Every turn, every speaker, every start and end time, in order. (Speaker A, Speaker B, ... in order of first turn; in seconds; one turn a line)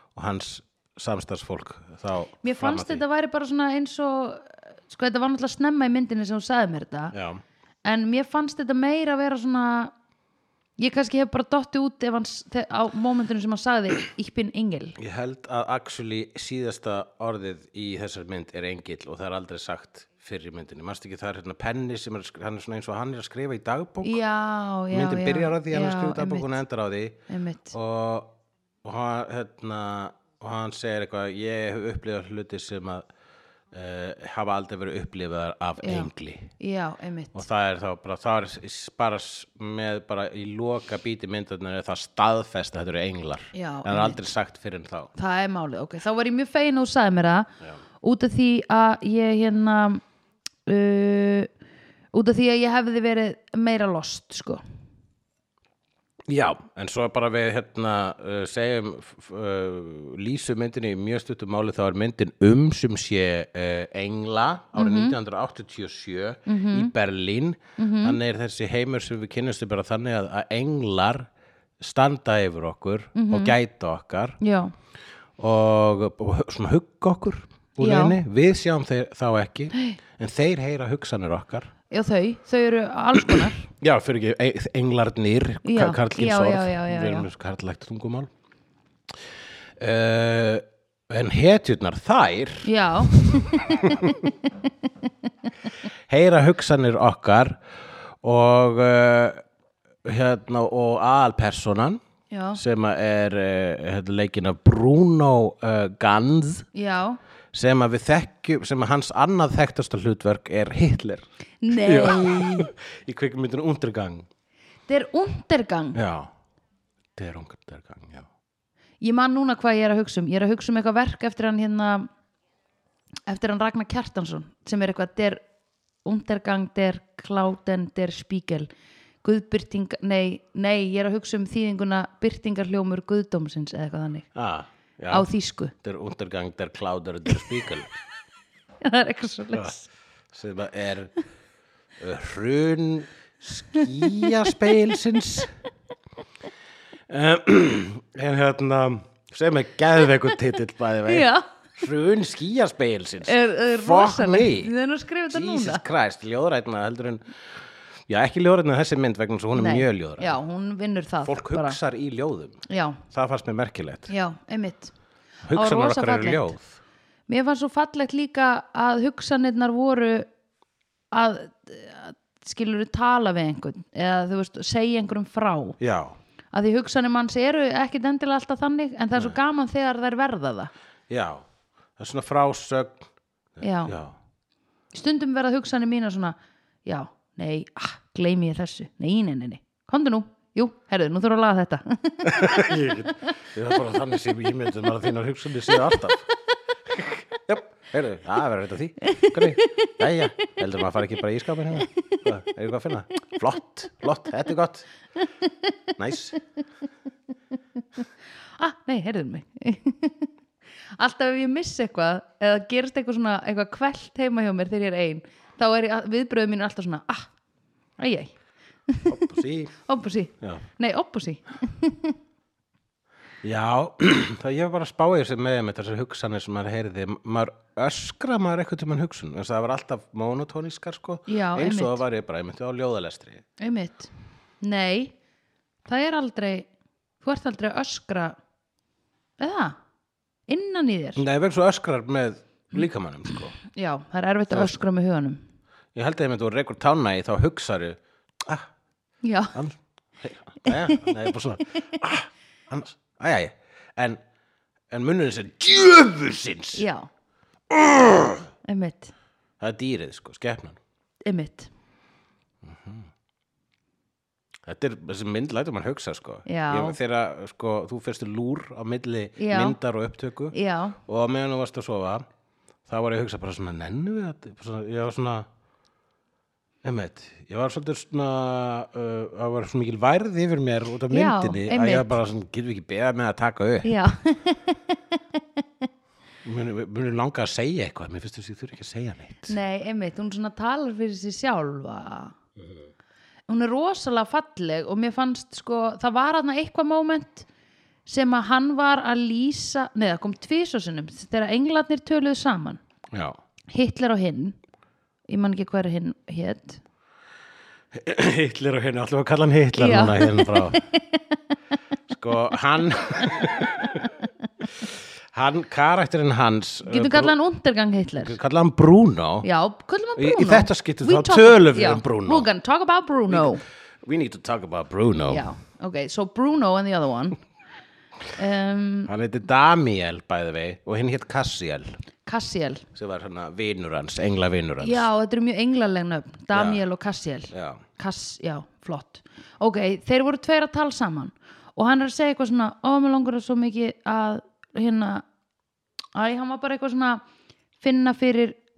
Speaker A: 0.1-3.0
Speaker B: 2.4-7.1
Speaker A: 7.1-7.4
Speaker B: 7.8-9.9
Speaker B: 10.8-15.0
Speaker A: 15.0-24.2
Speaker B: 24.0-26.5
Speaker A: 24.9-27.2
Speaker B: 27.3-27.7
Speaker A: 27.7-33.0
Speaker A: 33.7-36.5
Speaker B: 35.8-37.4
Speaker A: 37.3-45.1
Speaker B: 43.5-44.2
Speaker B: 45.1-47.5
Speaker B: 48.0-50.0
Speaker B: 50.6-51.5
Speaker B: 52.1-54.6
Speaker A: 56.3-71.3
Speaker B: 64.7-65.2
Speaker B: 66.5-66.9
Speaker B: 67.8-68.2
Speaker A: 71.8-74.4
Speaker B: 73.1-73.5
Speaker B: 74.4-74.7
Speaker A: 75.4-81.7
Speaker B: 77.8-78.2
Speaker B: 79.7-80.0
Speaker B: 81.9-83.7
Speaker A: 83.3-88.3
Speaker B: 85.6-87.3
Speaker A: 89.8-94.2
Speaker B: 92.6-94.0
Speaker A: 96.1-97.6
Speaker A: 98.2-99.4
Speaker A: 100.0-102.0
Speaker B: 102.3-102.6
Speaker A: 102.5-106.7
Speaker B: 106.7-107.2
Speaker A: 107.5-114.2
Speaker B: 111.6-112.7
Speaker B: 114.9-116.0
Speaker A: 115.9-116.3
Speaker A: 117.2-118.3
Speaker B: 119.0-122.1
Speaker B: 123.3-125.4
Speaker B: 126.0-128.7
Speaker B: 129.2-134.3
Speaker A: 134.3-137.9
Speaker B: 135.1-135.7
Speaker B: 138.8-139.8
Speaker A: 140.3-141.1
Speaker A: 142.0-145.5
Speaker B: 143.8-144.5
Speaker A: 147.1-154.7
Speaker B: 151.1-151.4
Speaker B: 153.2-155.8
Speaker A: 155.3-157.2
Speaker A: 158.1-160.4
Speaker B: 159.5-161.8
Speaker A: 161.2-164.1
Speaker B: 162.7-163.0
Speaker B: 164.1-164.9
Speaker A: 165.4-166.8
Speaker B: 165.5-166.6
Speaker B: 167.3-170.3
Speaker B: 171.1-175.8
Speaker A: 175.8-176.2
Speaker B: 176.5-180.7
Speaker A: 181.1-181.4
Speaker A: 182.0-184.1
Speaker B: 183.6-183.9
Speaker B: 184.9-192.4
Speaker A: 192.2-196.3
Speaker A: 196.9-204.9
Speaker B: 199.0-199.9
Speaker A: 206.0-206.4
Speaker B: 208.6-210.3
Speaker B: 211.0-217.3
Speaker B: 218.0-218.3
Speaker A: 219.1-219.7
Speaker B: 219.8-222.2
Speaker A: 223.4-233.4
Speaker B: 231.3-232.0
Speaker B: 233.6-235.1
Speaker B: 235.8-236.7
Speaker B: 237.2-238.3
Speaker B: 239.4-239.8
Speaker B: 240.5-241.2
Speaker A: 241.2-243.6
Speaker B: 243.7-245.4
Speaker A: 244.5-244.8
Speaker A: 245.9-248.7
Speaker B: 249.2-249.5
Speaker A: 249.5-254.2
Speaker B: 250.9-251.1
Speaker A: 254.9-256.8
Speaker B: 256.7-257.1
Speaker A: 257.7-258.4
Speaker B: 258.6-259.1
Speaker A: 259.6-260.8
Speaker B: 261.2-261.7
Speaker A: 262.6-263.1
Speaker A: 264.6-272.2
Speaker B: 266.4-267.0
Speaker B: 269.4-269.8
Speaker B: 270.5-271.0
Speaker A: 272.9-275.5
Speaker A: 276.8-283.9
Speaker B: 281.1-282.1
Speaker B: 283.8-285.6
Speaker A: 286.4-289.6
Speaker B: 289.5-292.4
Speaker B: 293.5-297.5
Speaker B: 298.1-302.8
Speaker A: 303.1-303.4
Speaker B: 303.7-304.6
Speaker B: 305.3-306.8
Speaker A: 307.9-310.8
Speaker B: 309.8-311.4
Speaker A: 312.1-314.1
Speaker A: 314.8-317.3
Speaker B: 316.9-318.4
Speaker A: 318.2-319.5
Speaker B: 319.4-323.6
Speaker A: 320.2-322.5
Speaker A: 323.3-325.4
Speaker B: 325.3-327.4
Speaker B: 328.4-329.1
Speaker A: 329.1-332.0
Speaker B: 332.2-332.8
Speaker A: 332.9-335.1
Speaker B: 334.8-345.2
Speaker A: 336.5-336.8
Speaker A: 337.5-337.8
Speaker B: 346.1-347.2
Speaker B: 347.8-348.6